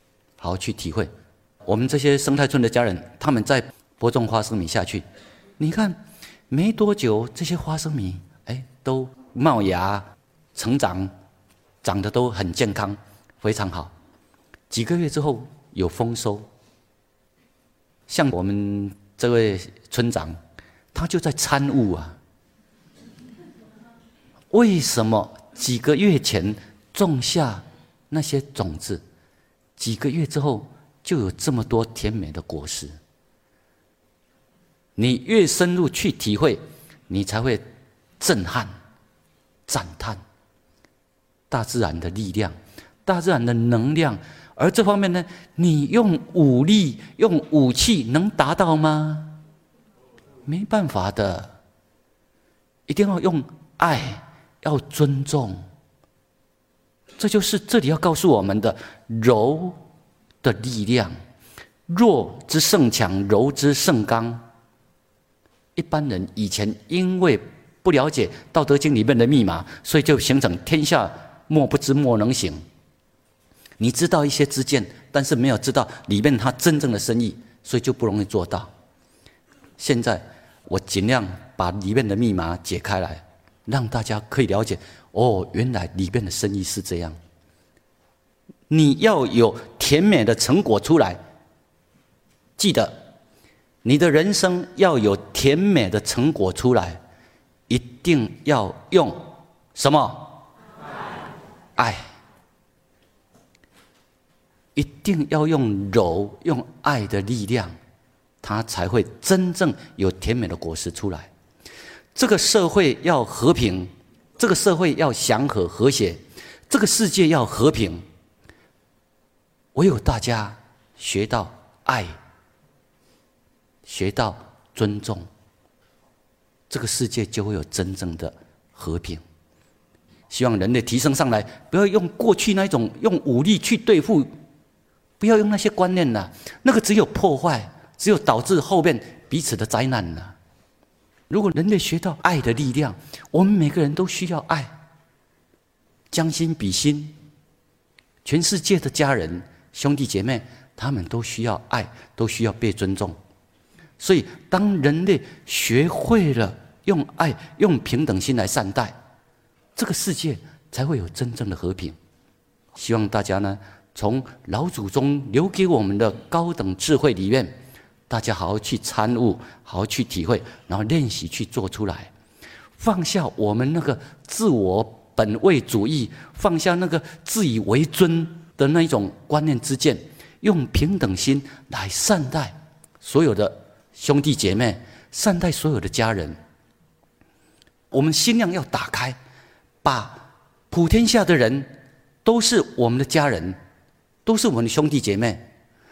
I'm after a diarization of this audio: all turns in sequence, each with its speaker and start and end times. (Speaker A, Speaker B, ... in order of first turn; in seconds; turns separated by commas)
Speaker A: 0.4-1.1, Speaker A: 1.7-5.0, Speaker A: 5.6-11.1, Speaker A: 11.8-13.9, Speaker A: 14.7-16.5, Speaker A: 18.1-20.4, Speaker A: 20.9-22.2, Speaker A: 24.5-29.0, Speaker A: 29.8-33.0, Speaker A: 35.0-37.6, Speaker A: 38.2-38.7, Speaker A: 39.7-40.2, Speaker A: 41.5-49.4, Speaker A: 50.5-51.6, Speaker A: 52.9-55.7, Speaker A: 57.2-59.8, Speaker A: 60.4-61.1, Speaker A: 61.9-64.5, Speaker A: 65.8-72.6, Speaker A: 73.8-78.7, Speaker A: 79.8-87.2, Speaker A: 88.7-91.2, Speaker A: 92.6-93.0, Speaker A: 93.8-97.0, Speaker A: 97.7-100.4, Speaker A: 101.8-102.0, Speaker A: 104.8-107.8, Speaker A: 108.4-111.3, Speaker A: 112.2-118.0, Speaker A: 119.8-122.2, Speaker A: 123.9-125.3, Speaker A: 126.7-129.2, Speaker A: 130.3-134.3, Speaker A: 135.2-140.3, Speaker A: 141.3-144.7, Speaker A: 146.1-147.2, Speaker A: 148.2-153.2, Speaker A: 154.0-159.0, Speaker A: 159.8-162.0, Speaker A: 162.8-167.6, Speaker A: 168.1-172.1, Speaker A: 172.8-186.4, Speaker A: 187.9-189.2, Speaker A: 189.8-191.7, Speaker A: 192.2-193.6, Speaker A: 194.2-195.5